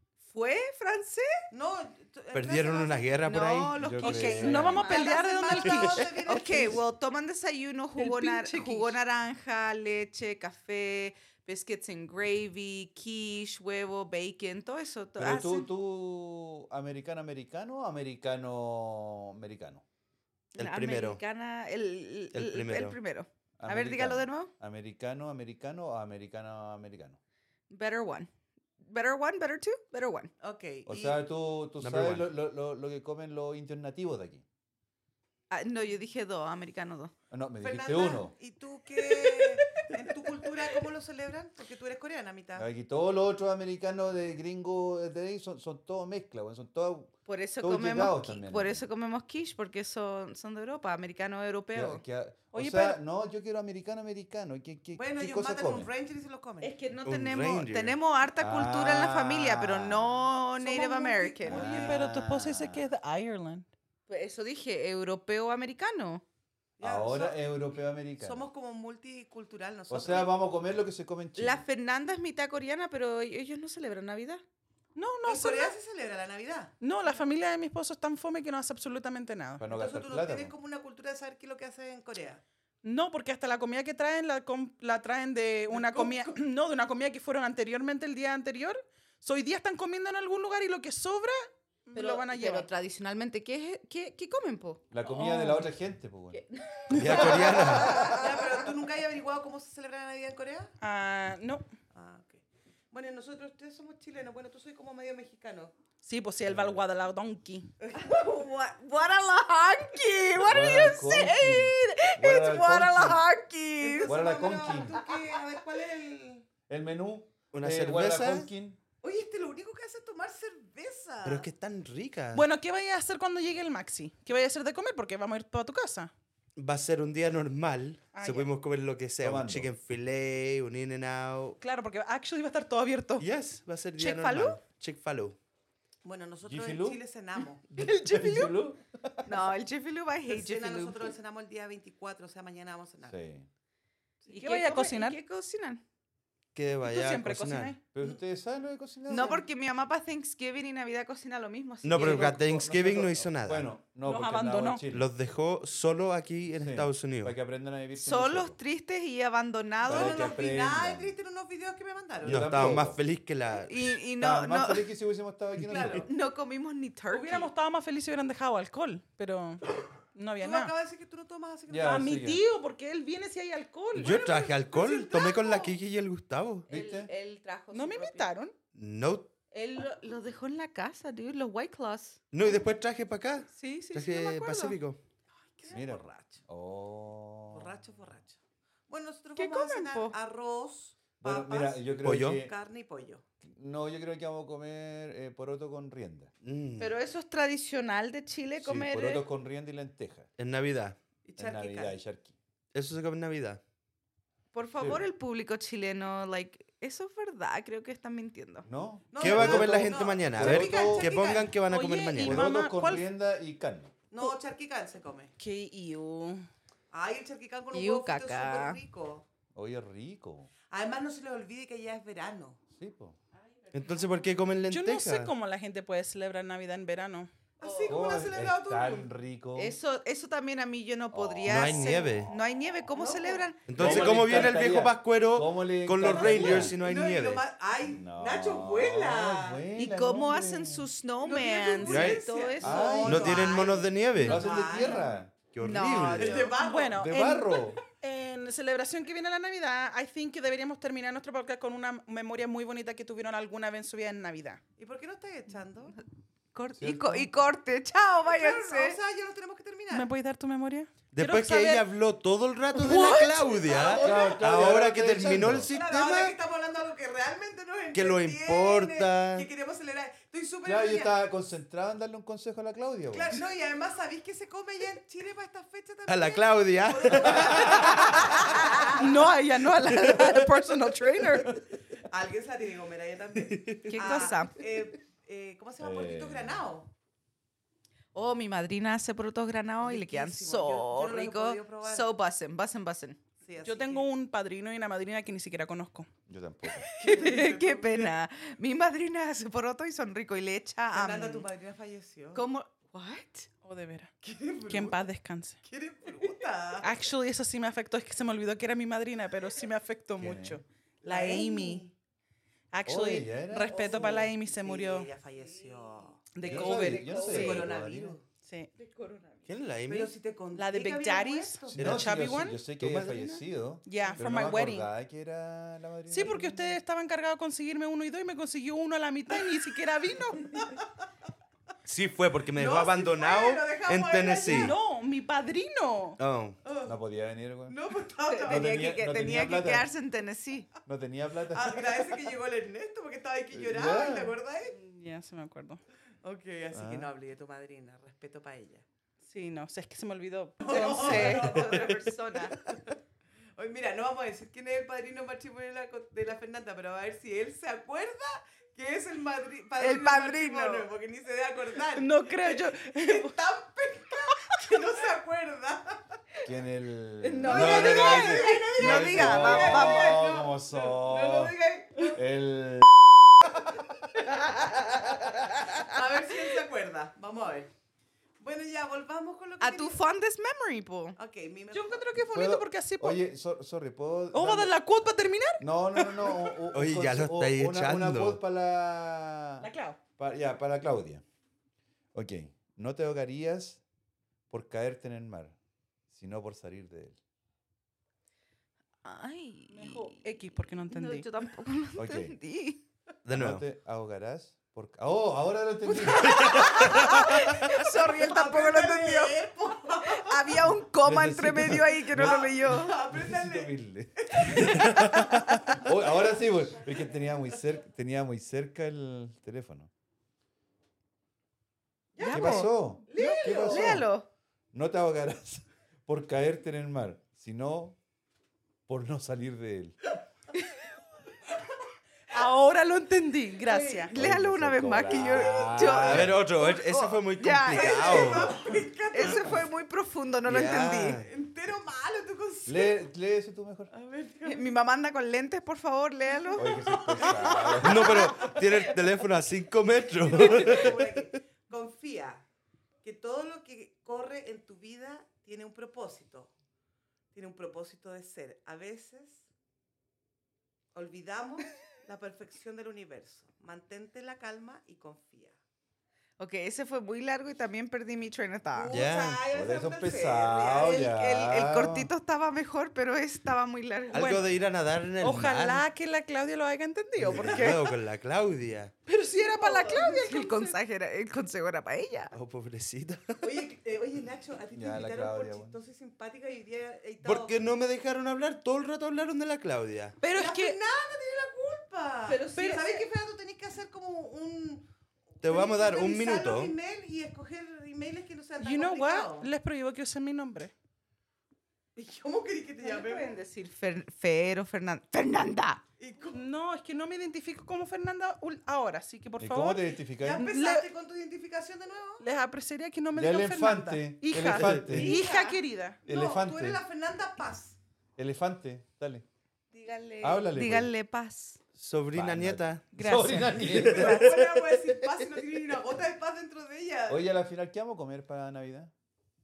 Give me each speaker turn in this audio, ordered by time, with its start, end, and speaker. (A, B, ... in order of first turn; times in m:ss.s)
0:00.2-0:01.5 A
0:01.5-0:03.2 B
0:02.3-0:04.5 C
0:03.2-0:15.7 A
0:03.8-0:04.9 D
0:04.0-0:06.2 E
0:04.6-0:06.8 B
0:08.0-0:09.0 E
0:15.2-0:19.8 D
0:20.5-0:24.5 A
0:20.6-0:21.2 C
0:22.3-0:23.0 C
0:23.6-0:27.2 D
0:27.7-0:28.3 A
0:28.8-0:30.3 A
0:30.4-0:31.2 B
0:30.8-0:34.4 D
0:31.8-0:32.3 C
0:35.5-0:37.1 A
0:37.3-0:38.3 D
0:37.6-0:42.7 B
0:42.6-0:48.8 D
0:47.3-0:52.0 A
0:51.7-0:55.9 D
0:52.5-0:53.0 E
0:55.0-0:56.7 B
0:56.6-1:01.8 A
0:57.0-0:58.0 C
0:58.4-1:00.3 D
1:00.6-1:01.4 B
1:01.1-1:03.7 E
1:01.4-1:02.8 D
1:04.1-1:06.2 A
1:06.8-1:07.7 B
1:06.8-1:08.4 D
1:08.2-1:10.4 B
1:09.9-1:11.6 D
1:11.4-1:14.4 A
1:15.0-1:15.7 E
1:15.2-1:16.7 B
1:16.8-1:19.6 E
1:19.6-1:20.5 D
1:19.7-1:22.4 B
1:22.8-1:32.7 E
1:25.7-1:26.3 B
1:31.9-1:34.8 A
1:34.9-1:36.4 D
1:35.0-1:35.7 E
1:36.3-1:38.5 A
1:36.9-1:38.2 C
1:36.9-1:37.3 E
1:38.1-1:40.7 B
1:40.8-1:41.7 E
1:41.9-1:45.7 B
1:46.0-1:47.7 E
1:46.4-1:46.8 D
1:47.8-1:48.2 B
1:47.9-1:54.2 A
1:50.4-1:53.2 D
1:53.8-1:56.4 B
1:54.0-1:55.0 D
1:56.7-1:58.8 D
1:57.5-1:58.5 C
1:59.0-2:01.5 B
2:01.2-2:02.4 C
2:02.3-2:06.1 E
2:06.6-2:11.6 C
2:08.1-2:08.5 E
2:09.2-2:09.7 D
2:11.6-2:13.2 E
2:13.2-2:15.4 C
2:14.0-2:14.5 A
2:16.0-2:17.6 B
2:16.4-2:17.0 D
2:17.7-2:19.5 D
2:17.7-2:18.6 E
2:19.2-2:21.0 A
2:20.3-2:23.2 B
2:23.0-2:23.5 D
2:24.3-2:25.2 E
2:24.3-2:25.8 A
2:26.5-2:27.8 C
2:26.8-2:27.8 E
2:27.9-2:29.4 D
2:29.1-2:32.4 A
2:29.1-2:29.4 B
2:31.8-2:33.7 C
2:31.9-2:35.1 D
2:34.0-2:34.8 E
2:34.9-2:37.4 C
2:36.5-2:38.6 D
2:37.9-2:40.4 A
2:39.8-2:42.7 B
2:39.8-2:41.2 D
2:42.2-2:43.0 D
2:42.2-2:44.0 C
2:43.6-2:44.9 A
2:44.2-2:46.0 D
2:45.6-2:46.1 B
2:45.7-2:47.5 A
2:47.1-2:49.6 E
2:50.1-2:50.7 E
2:50.4-2:52.1 B
2:51.7-2:52.4 D
2:51.8-2:54.2 E
2:54.0-2:56.7 C
2:54.0-2:55.8 B
2:56.7-2:57.1 D
2:56.7-2:58.3 A
2:57.7-2:58.5 E
2:58.7-2:59.3 C
2:59.5-3:02.6 A
3:02.3-3:05.0 C
3:03.5-3:04.8 A
3:05.5-3:06.4 B
3:05.7-3:07.8 D
3:07.5-3:13.2 B
3:09.4-3:10.1 A
3:11.2-3:12.5 D
3:12.0-3:12.4 C
3:13.4-3:16.3 D
3:16.4-3:17.0 C
3:16.8-3:19.2 A
3:18.6-3:18.9 C
3:18.6-3:20.3 D
3:20.4-3:21.0 C
3:21.2-3:22.0 B
3:21.4-3:22.4 D
3:22.7-3:23.6 C
3:24.5-3:28.7 A
3:24.8-3:25.0 D
3:28.6-3:31.1 D
3:29.1-3:31.6 B
3:29.2-3:32.5 C
3:31.7-3:33.1 E
3:32.2-3:33.9 D
3:34.1-3:35.3 B
3:35.4-3:36.5 E
3:36.9-3:39.2 B
3:37.7-3:38.8 A
3:39.5-3:40.5 D
3:40.7-3:42.6 B
3:42.7-3:43.2 D
3:43.6-3:44.1 A
3:43.7-3:45.3 C
3:44.7-3:47.3 E
3:47.6-3:49.1 B
3:47.6-3:48.0 A
3:47.9-3:49.8 D
3:49.6-3:53.7 A
3:51.1-3:51.7 D
3:51.4-3:52.3 C
3:52.9-3:54.8 B
3:53.7-3:57.4 C
3:53.8-3:56.8 D
3:56.0-3:59.7 B
3:57.9-4:00.9 D
3:59.8-4:03.1 A
4:01.2-4:05.2 B
4:01.3-4:02.0 E
4:01.8-4:02.3 C
4:02.6-4:05.3 D
4:03.0-4:04.6 C
4:05.5-4:06.5 C
4:05.6-4:06.5 A
4:06.1-4:07.0 B
4:06.6-4:14.6 E
4:07.0-4:07.8 D
4:14.8-4:16.0 B
4:16.5-4:19.0 A
4:16.8-4:17.3 D
4:18.2-4:20.1 B
4:19.9-4:21.8 E
4:21.1-4:26.3 C
4:22.8-4:23.8 A
4:23.4-4:24.6 B
4:24.0-4:25.7 D
4:25.7-4:31.2 B
4:27.9-4:29.5 C
4:30.6-4:33.4 D
4:33.1-4:39.0 B
4:36.1-4:38.1 C
4:38.6-4:38.9 A
4:38.9-4:41.5 E
4:42.0-4:46.9 B
4:43.5-4:44.2 C
4:43.9-4:44.6 A
4:45.8-4:46.6 D
4:48.1-4:53.2 A
4:49.8-4:52.1 B
4:53.4-4:54.1 B
4:53.6-4:56.1 E
4:56.3-4:56.8 D
4:56.9-5:01.4 A
4:57.0-4:58.1 B
5:00.9-5:02.4 B
5:02.3-5:03.5 A
5:03.6-5:04.1 E
5:04.2-5:05.1 B
5:04.7-5:05.6 E
5:05.6-5:06.9 B
5:06.8-5:11.8 E
5:10.2-5:10.6 D
5:11.0-5:11.9 B
5:12.7-5:15.1 E
5:12.8-5:13.8 D
5:13.7-5:14.3 A
5:13.8-5:16.4 B
5:15.3-5:17.7 A
5:16.3-5:17.2 E
5:16.4-5:18.2 D
5:17.1-5:18.2 B
5:18.4-5:18.7 E
5:18.8-5:19.5 A
5:19.5-5:20.1 C
5:19.9-5:22.0 B
5:20.5-5:24.9 E
5:21.7-5:26.5 D
5:26.1-5:30.6 E
5:31.8-5:34.8 C
5:32.6-5:34.8 B
5:34.4-5:36.2 E
5:36.2-5:36.6 C
5:36.6-5:37.0 B
5:36.8-5:37.8 D
5:37.6-5:38.9 B
5:38.3-5:40.7 A
5:38.4-5:39.9 D
5:40.8-5:42.1 D
5:41.5-5:44.7 B
5:43.5-5:44.4 D
5:44.7-5:45.8 E
5:46.2-5:48.8 B
5:46.7-5:47.1 D
5:49.2-5:50.9 E
5:50.6-5:52.9 B
5:50.6-5:52.6 A
5:53.6-6:06.2 B
5:59.8-6:00.9 A
6:02.0-6:03.3 E
6:06.4-6:11.6 D
6:07.2-6:10.3 A
6:07.4-6:12.1 B
6:12.1-6:12.9 D
6:14.3-6:14.8 A
6:15.4-6:15.8 A
6:15.8-6:17.7 B
6:18.4-6:20.0 B
6:19.6-6:21.2 A
6:21.2-6:22.0 B
6:21.7-6:23.2 E
6:22.3-6:24.7 D
6:24.3-6:26.5 E
6:25.6-6:31.2 D
6:26.7-6:28.4 C
6:29.6-6:30.0 E
6:32.1-6:33.8 D
6:34.5-6:35.6 D
6:36.1-6:37.2 D
6:39.0-6:40.3 A
6:39.7-6:41.3 E
6:40.9-6:42.8 A
6:42.0-6:42.4 D
6:43.2-6:43.6 C
6:43.3-6:47.1 D
6:45.9-6:49.5 A
6:46.4-6:46.8 C
6:46.8-6:47.0 B
6:47.7-6:50.7 B
6:50.0-6:53.0 A
6:51.0-6:54.7 D
6:52.2-6:55.2 B
6:54.4-6:55.7 A
6:55.7-6:59.9 D
7:02.2-7:04.0 B
7:02.2-7:04.3 A
7:02.2-7:02.6 E
7:02.3-7:04.1 D
7:03.1-7:03.6 E
7:04.7-7:08.0 D
7:08.9-7:10.0 D
7:12.3-7:14.1 E
7:13.7-7:18.6 A
7:14.1-7:16.4 D
7:15.3-7:15.9 B
7:16.0-7:18.6 C
7:17.7-7:19.6 B
7:19.1-7:21.2 A
7:20.4-7:21.3 C
7:21.1-7:23.1 B
7:22.6-7:23.9 D
7:23.9-7:24.7 B
7:24.4-7:27.6 A
7:26.3-7:28.9 B
7:26.6-7:28.2 D
7:27.8-7:31.2 C
7:30.1-7:32.4 B
7:33.0-7:36.5 B
7:37.3-7:39.4 B
7:40.9-7:45.6 B
7:46.4-7:49.0 A
7:48.7-7:51.0 B
7:48.9-7:49.4 C
7:49.5-7:52.1 D
7:50.8-7:54.4 A
7:54.1-7:55.8 C
7:54.1-7:54.4 E
7:55.2-7:57.9 E
7:57.2-7:58.9 C
7:57.3-7:57.8 A
7:59.1-8:00.8 E
7:59.4-8:02.3 A
8:02.3-8:03.5 C
8:03.4-8:07.6 B
8:04.7-8:05.8 D
8:07.2-8:10.2 C
8:10.2-8:10.8 E
8:10.3-8:14.9 B
8:12.3-8:13.0 E
8:15.4-8:19.5 B
8:15.4-8:16.7 C
8:18.6-8:20.7 E
8:22.0-8:23.3 B
8:22.8-8:25.8 A
8:26.0-8:26.4 B
8:26.3-8:30.9 E
8:29.4-8:30.5 D
8:30.2-8:32.2 B
8:32.2-8:36.0 E
8:33.1-8:35.2 D
8:34.5-8:34.9 C
8:35.0-8:35.4 B
8:35.1-8:35.6 A
8:36.0-8:36.8 D
8:36.0-8:37.8 B
8:38.2-8:39.3 D
8:39.7-8:41.6 A
8:40.2-8:40.9 D
8:41.8-8:42.9 C
8:42.1-8:44.2 D
8:42.9-8:43.7 E
8:43.5-8:44.6 C
8:43.7-8:47.3 B
8:47.1-8:48.9 D